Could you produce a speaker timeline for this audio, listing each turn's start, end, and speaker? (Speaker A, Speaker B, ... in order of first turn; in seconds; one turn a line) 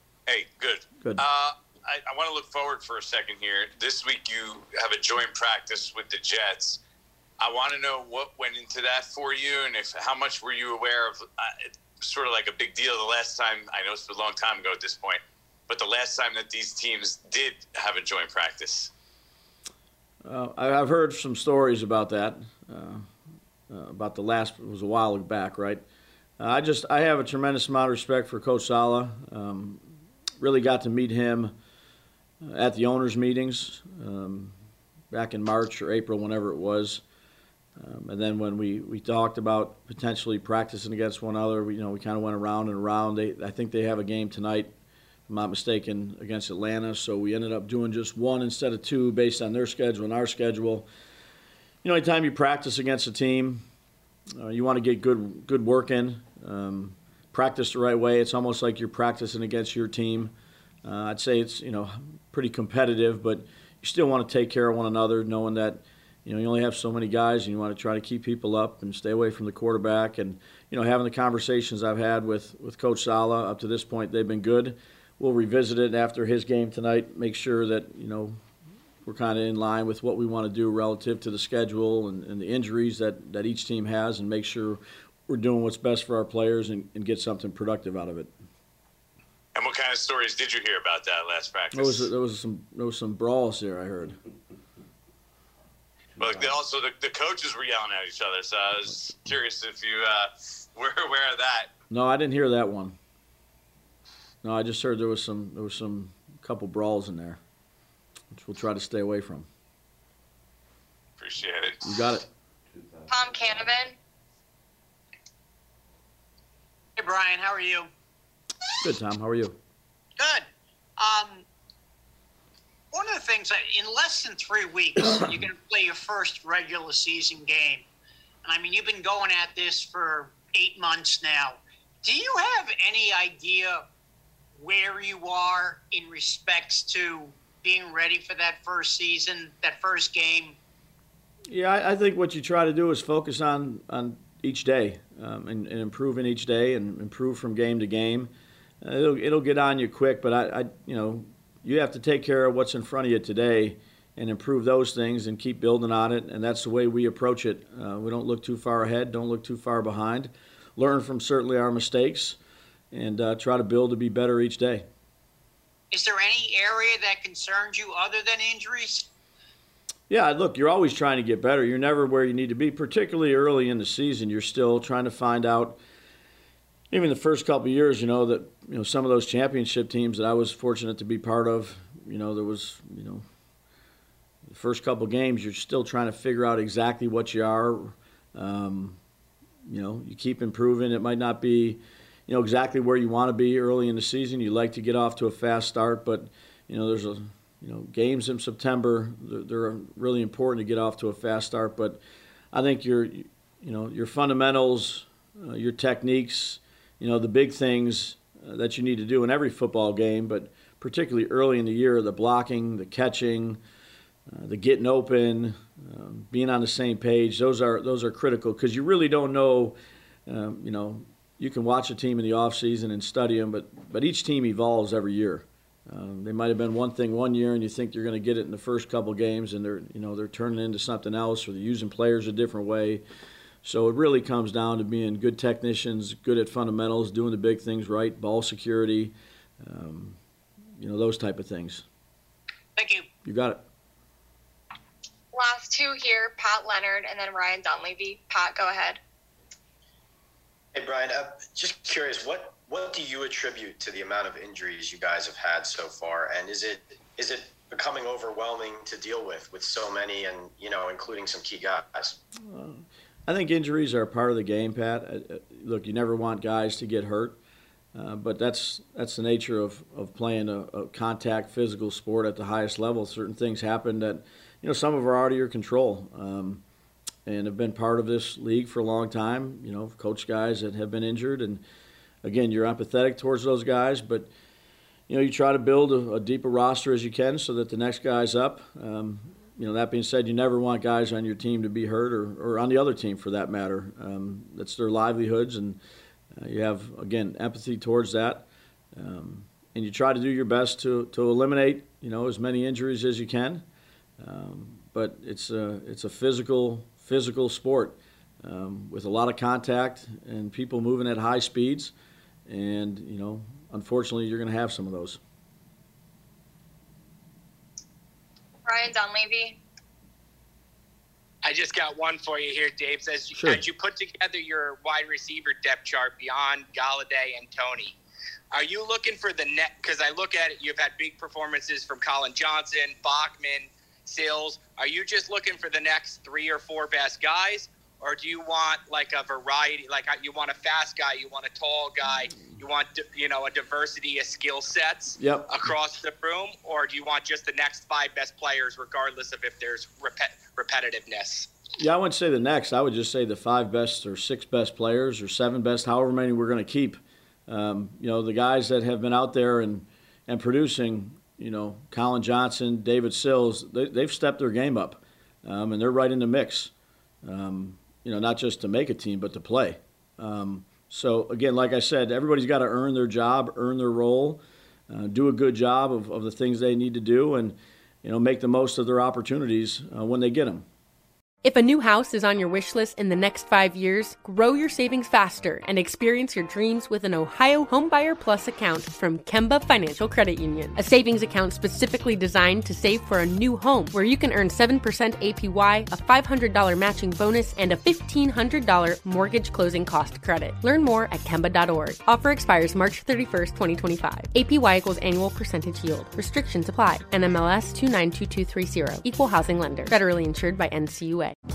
Speaker A: 0.3-6.8
Speaker A: 7.4-18.9
Speaker B: 20.2-23.1
Speaker B: 23.7-25.8
Speaker B: 26.4-29.9
Speaker B: 30.4-31.5
Speaker B: 32.4-34.5
Speaker B: 35.1-37.0
Speaker B: 37.8-44.7
Speaker B: 45.3-50.9
Speaker B: 51.8-53.6
Speaker B: 54.4-60.3
Speaker B: 60.8-78.4
Speaker B: 79.0-88.3
Speaker A: 89.5-92.1
Speaker B: 91.7-94.2
Speaker A: 96.2-101.7
Speaker B: 101.9-103.0
Speaker B: 104.4-107.4
Speaker B: 108.3-109.5
Speaker A: 111.2-112.0
Speaker B: 111.8-112.2
Speaker C: 113.1-114.0
Speaker D: 117.0-117.9
Speaker B: 118.8-119.5
Speaker D: 121.0-121.4
Speaker D: 122.9-127.8
Speaker D: 128.4-133.8
Speaker D: 134.6-140.6
Speaker B: 141.5-148.3
Speaker B: 148.8-162.4
Speaker B: 162.9-164.8
Speaker D: 165.9-169.1
Speaker B: 170.1-175.8
Speaker B: 176.9-183.2
Speaker B: 184.5-189.0
Speaker B: 189.7-202.0
Speaker B: 202.5-213.6
Speaker B: 214.3-233.0
Speaker B: 233.6-240.2
Speaker B: 240.8-241.8
Speaker D: 242.8-243.0
Speaker B: 243.2-243.6
Speaker C: 245.3-249.0
Speaker E: 250.8-262.2
Speaker B: 262.5-267.4
Speaker B: 267.9-276.6
Speaker B: 277.2-281.6
Speaker B: 282.2-284.3
Speaker B: 285.1-295.8
Speaker B: 296.4-303.6
Speaker B: 304.2-311.9
Speaker B: 312.5-315.2
Speaker C: 318.6-319.6
Speaker F: 321.4-328.0
Speaker B: 323.3-323.6
Speaker F: 328.5-351.5
Speaker B: 345.2-345.6
Speaker B: 351.8-366.7
Speaker B: 367.2-380.6
Speaker G: 381.4-411.3